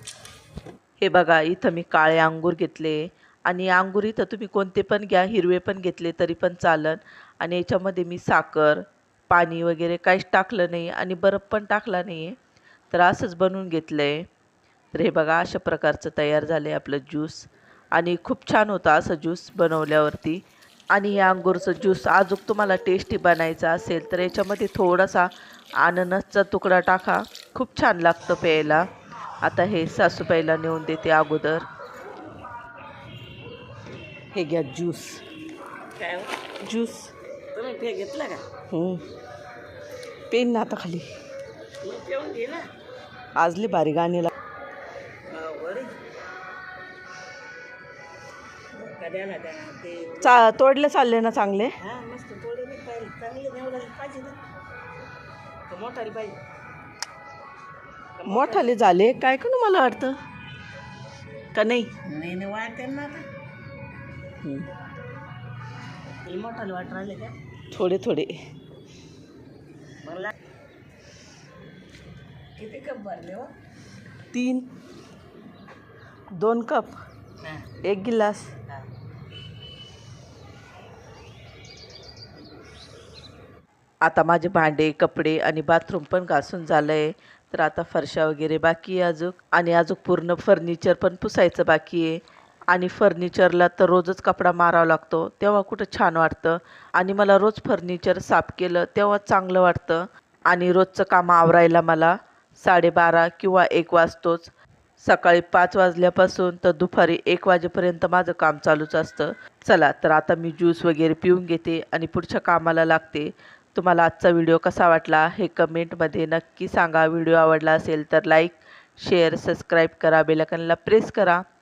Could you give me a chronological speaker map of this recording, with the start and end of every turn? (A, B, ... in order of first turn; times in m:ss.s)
0:01.0-0:12.4 A
0:12.9-0:14.2 A
0:14.9-0:28.9 A
0:29.4-0:31.7 A
0:34.3-0:35.2 A
0:36.0-0:36.4 B
0:36.6-0:37.1 A
0:37.5-0:38.4 B
0:38.7-0:39.0 A
0:40.3-0:41.1 A
0:41.8-0:42.7 B
0:43.4-0:44.3 A
0:45.3-0:46.0 B
0:48.7-0:50.4 B
0:50.2-0:51.8 A
0:51.8-0:54.4 B
0:55.7-0:56.4 B
0:58.2-0:58.8 B
0:58.3-1:00.2 A
1:01.5-1:02.0 A
1:02.0-1:03.3 B
1:04.4-1:04.7 A
1:06.2-1:07.3 B
1:07.7-1:08.3 A
1:10.0-1:10.3 B
1:12.6-1:13.5 B
1:14.3-1:14.7 A
1:16.3-1:17.0 A
1:17.8-1:18.5 A
1:24.0-2:01.4 A